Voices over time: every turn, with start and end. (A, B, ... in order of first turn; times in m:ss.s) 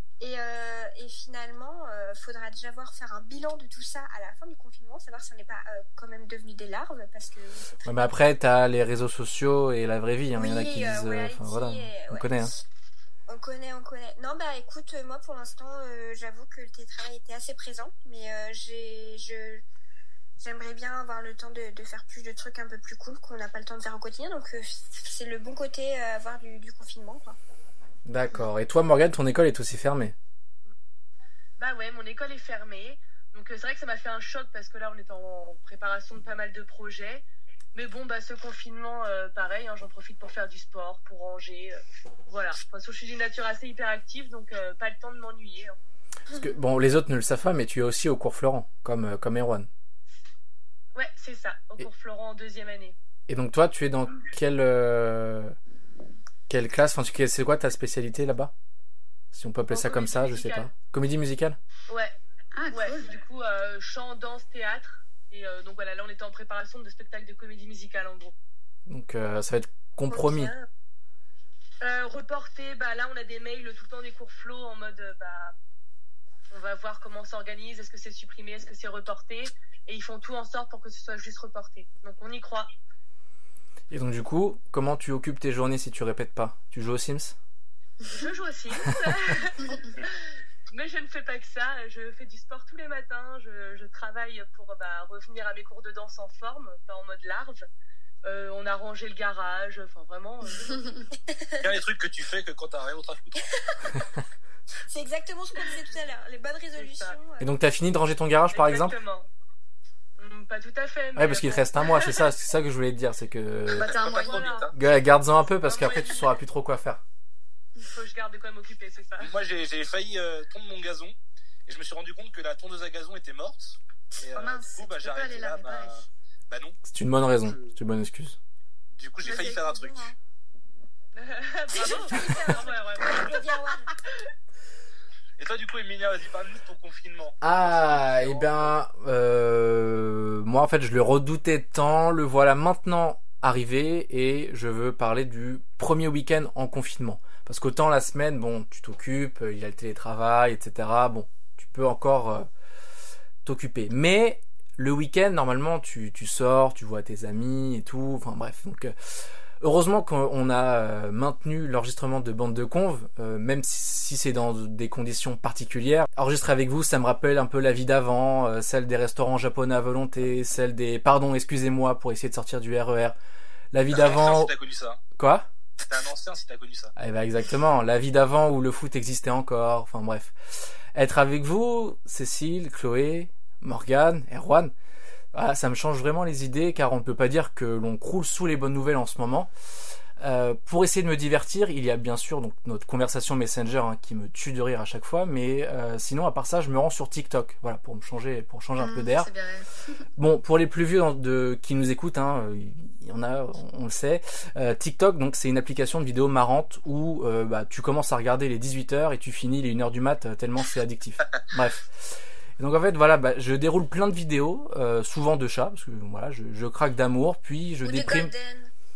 0:00.2-0:08.1 A
0:07.8-0:12.5 B
0:10.4-0:12.6 A
0:13.3-0:19.6 A
0:20.4-0:27.4 A
0:28.1-0:30.2 B
0:31.6-0:45.8 C
0:46.3-0:49.7 B
0:51.0-0:53.0 C
0:53.3-0:55.6 B
0:56.5-0:58.5 B
0:59.3-1:01.6 B
0:59.7-1:00.7 C
1:01.9-1:02.2 C
1:02.5-1:03.1 D
1:02.7-1:08.4 C
1:08.9-1:10.5 B
1:10.1-1:10.7 A
1:11.8-1:15.6 C
1:16.5-1:22.7 C
1:23.9-1:27.4 B
1:28.1-1:30.2 C
1:30.7-1:37.7 C
1:38.2-1:41.0 C
1:41.1-1:41.7 A
1:41.6-1:43.5 E
1:43.4-1:44.0 A
1:44.9-1:47.5 A
1:46.8-1:47.2 C
1:47.4-1:49.0 B
1:48.5-1:49.3 C
1:50.2-1:52.3 C
1:51.2-1:53.9 B
1:53.7-1:54.6 D
1:53.8-1:54.7 E
1:54.2-1:55.0 C
1:54.7-1:57.0 B
1:55.6-1:56.4 C
1:57.8-1:59.3 C
1:59.2-2:06.8 E
2:04.4-2:06.0 D
2:06.9-2:08.4 B
2:09.0-2:10.2 E
2:09.2-2:10.2 D
2:11.2-2:14.0 C
2:11.7-2:13.9 A
2:15.4-2:18.8 E
2:17.4-2:32.5 B
2:33.4-2:38.9 B
2:39.6-2:53.2 B
2:53.7-2:54.5 B
2:53.9-2:55.0 E
2:55.2-2:55.5 B
2:55.9-2:56.9 E
2:57.0-3:04.7 B
3:05.3-3:09.5 B
3:10.2-3:19.3 B
3:18.8-3:20.0 D
3:20.2-3:38.3 B
3:37.8-3:38.7 A